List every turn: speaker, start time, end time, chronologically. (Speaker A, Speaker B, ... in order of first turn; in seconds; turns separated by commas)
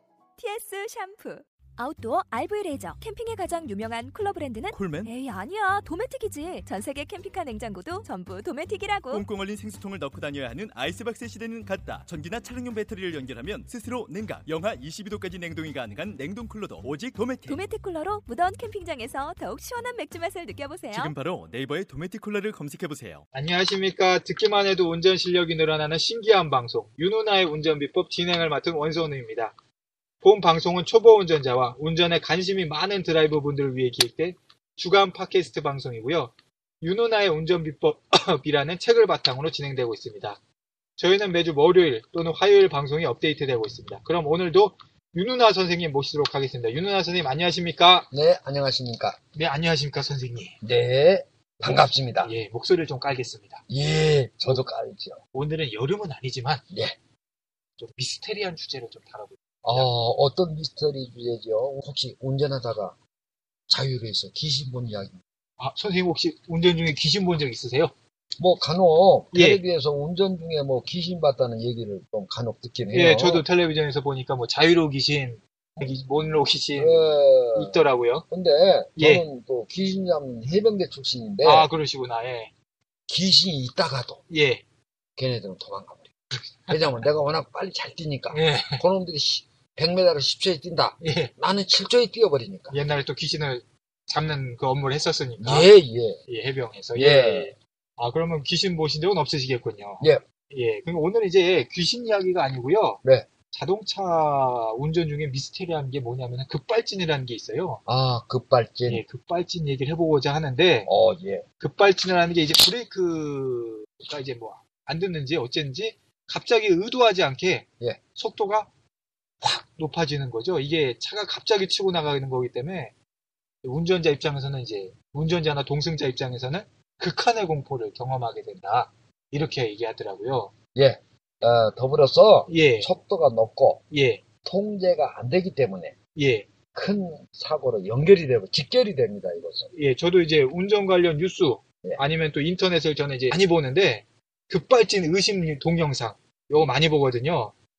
Speaker A: 0.4-9.2, Speaker B: 4.7-5.1, Speaker B: 9.1-17.7, Speaker A: 17.5-21.1, Speaker B: 20.9-23.2, Speaker C: 23.3-29.6, Speaker C: 30.2-40.4, Speaker C: 41.0-48.1, Speaker D: 48.1-49.2, Speaker C: 49.3-50.6, Speaker D: 50.6-52.3, Speaker C: 51.6-53.6, Speaker D: 53.7-55.2, Speaker C: 55.3-56.6, Speaker D: 56.7-57.0, Speaker C: 57.8-59.9, Speaker D: 59.6-63.0, Speaker D: 63.7-65.2, Speaker C: 65.6-67.9, Speaker D: 68.4-73.5, Speaker C: 69.3-69.6, Speaker C: 72.9-78.3, Speaker D: 76.8-81.7, Speaker C: 79.0-79.2, Speaker C: 81.4-82.5, Speaker D: 83.1-84.2, Speaker C: 84.3-84.6, Speaker D: 85.2-86.1, Speaker D: 86.6-92.8, Speaker C: 88.3-88.8, Speaker C: 91.0-91.3, Speaker C: 92.7-95.7, Speaker D: 95.4-96.2, Speaker C: 96.3-107.8, Speaker D: 97.0-97.5, Speaker D: 107.9-109.0, Speaker C: 108.9-110.9, Speaker D: 110.9-111.5, Speaker C: 111.6-118.7, Speaker C: 119.4-122.9, Speaker C: 123.6-130.5, Speaker D: 130.8-133.8, Speaker C: 132.5-132.9, Speaker C: 133.9-134.2, Speaker D: 134.4-135.9, Speaker C: 136.2-136.5, Speaker D: 136.7-139.7, Speaker C: 139.7-147.5